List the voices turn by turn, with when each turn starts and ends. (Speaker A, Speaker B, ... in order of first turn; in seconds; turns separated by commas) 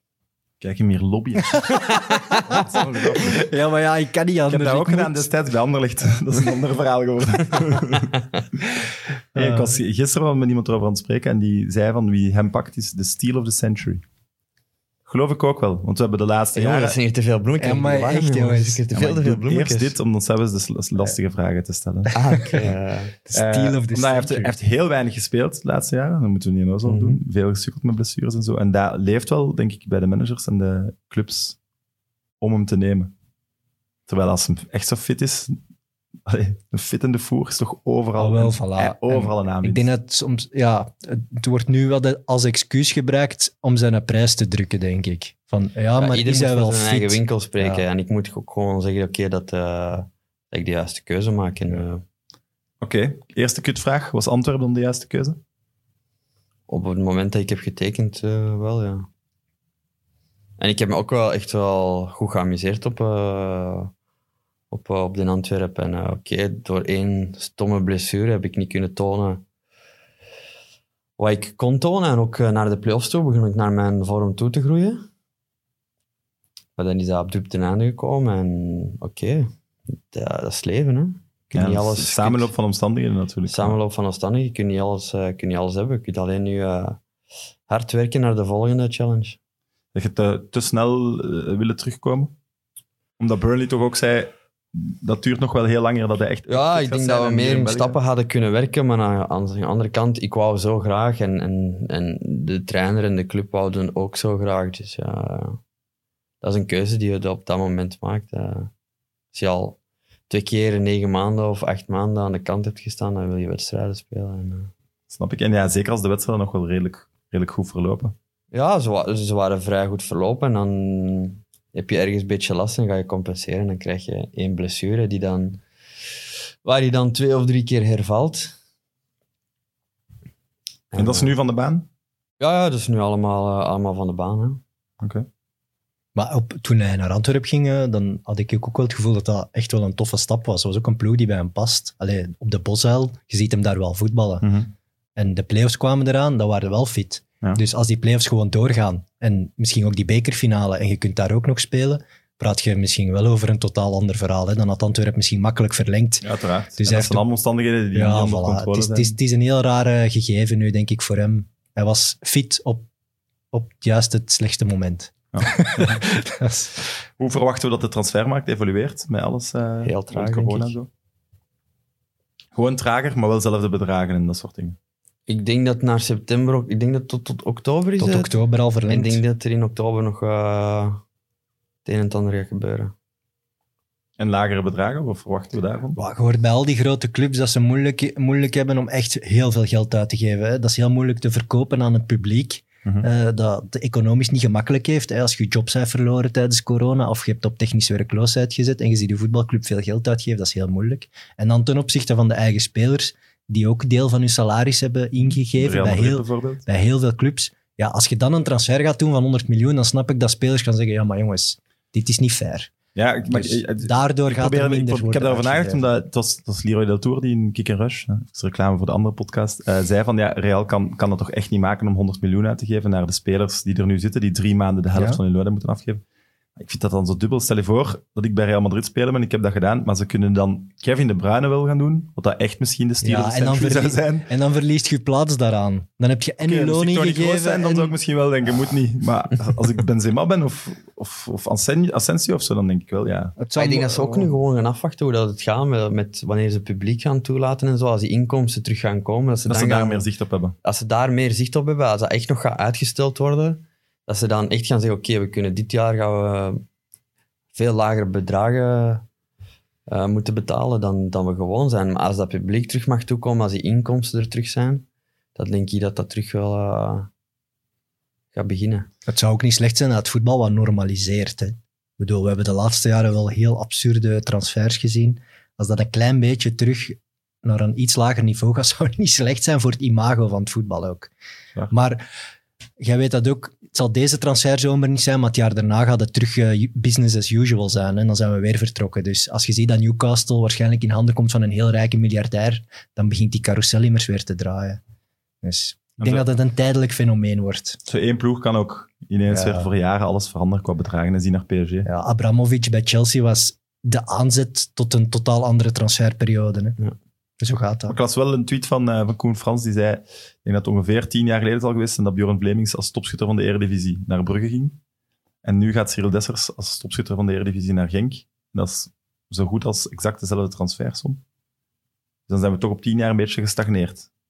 Speaker A: 0.6-1.8, Speaker B: 1.5-5.3, Speaker A: 2.5-3.4, Speaker A: 4.5-8.2, Speaker B: 9.3-9.8, Speaker A: 9.3-14.0, Speaker A: 15.1-17.0, Speaker C: 16.5-19.9, Speaker B: 17.6-18.8, Speaker A: 18.9-22.1, Speaker C: 22.1-23.1, Speaker B: 23.2-24.5, Speaker A: 23.3-31.6, Speaker C: 26.9-27.2, Speaker A: 32.4-33.1, Speaker A: 34.1-35.6, Speaker A: 36.2-39.9, Speaker B: 38.2-47.9, Speaker C: 45.9-52.0, Speaker A: 52.8-55.4, Speaker C: 56.7-59.1, Speaker C: 60.6-63.9, Speaker C: 64.7-69.4, Speaker C: 71.2-75.0, Speaker C: 76.8-79.5, Speaker C: 80.1-82.5, Speaker A: 81.5-83.8, Speaker C: 83.5-87.0, Speaker C: 87.7-89.4, Speaker A: 89.9-92.3, Speaker A: 93.2-98.0, Speaker C: 96.5-105.6, Speaker C: 106.4-108.7, Speaker C: 109.3-109.8, Speaker C: 110.3-114.7, Speaker A: 115.1-118.1, Speaker C: 118.5-125.6, Speaker C: 126.6-128.5, Speaker C: 130.9-131.3, Speaker A: 130.9-131.9, Speaker C: 132.4-134.6, Speaker A: 135.0-135.2, Speaker B: 136.1-144.5, Speaker A: 144.4-144.7, Speaker B: 145.2-157.2, Speaker A: 156.2-159.1, Speaker B: 157.9-162.9, Speaker B: 163.5-166.8, Speaker A: 165.3-166.0, Speaker A: 167.2-170.9, Speaker C: 169.8-170.8, Speaker A: 172.5-174.8, Speaker C: 175.3-178.3, Speaker B: 178.0-179.2, Speaker C: 178.9-181.0, Speaker C: 181.8-182.9, Speaker A: 184.2-186.0, Speaker B: 185.9-212.7, Speaker A: 205.3-206.7, Speaker A: 212.9-226.0, Speaker B: 213.2-215.9, Speaker B: 224.9-225.2, Speaker A: 226.6-234.3, Speaker B: 233.0-237.9, Speaker A: 236.4-243.4, Speaker B: 243.4-244.3, Speaker C: 243.6-250.1, Speaker A: 249.5-250.6, Speaker C: 250.6-256.6, Speaker C: 257.5-259.0, Speaker C: 259.9-264.9, Speaker C: 265.4-267.1, Speaker C: 268.3-268.9, Speaker B: 269.1-281.1, Speaker B: 281.7-282.1, Speaker B: 282.8-294.8, Speaker B: 295.4-297.8, Speaker A: 296.0-296.3, Speaker A: 297.9-301.9, Speaker B: 299.3-299.7, Speaker B: 301.9-306.8, Speaker B: 307.4-308.0, Speaker A: 307.9-314.8, Speaker A: 315.4-321.2, Speaker A: 322.3-324.1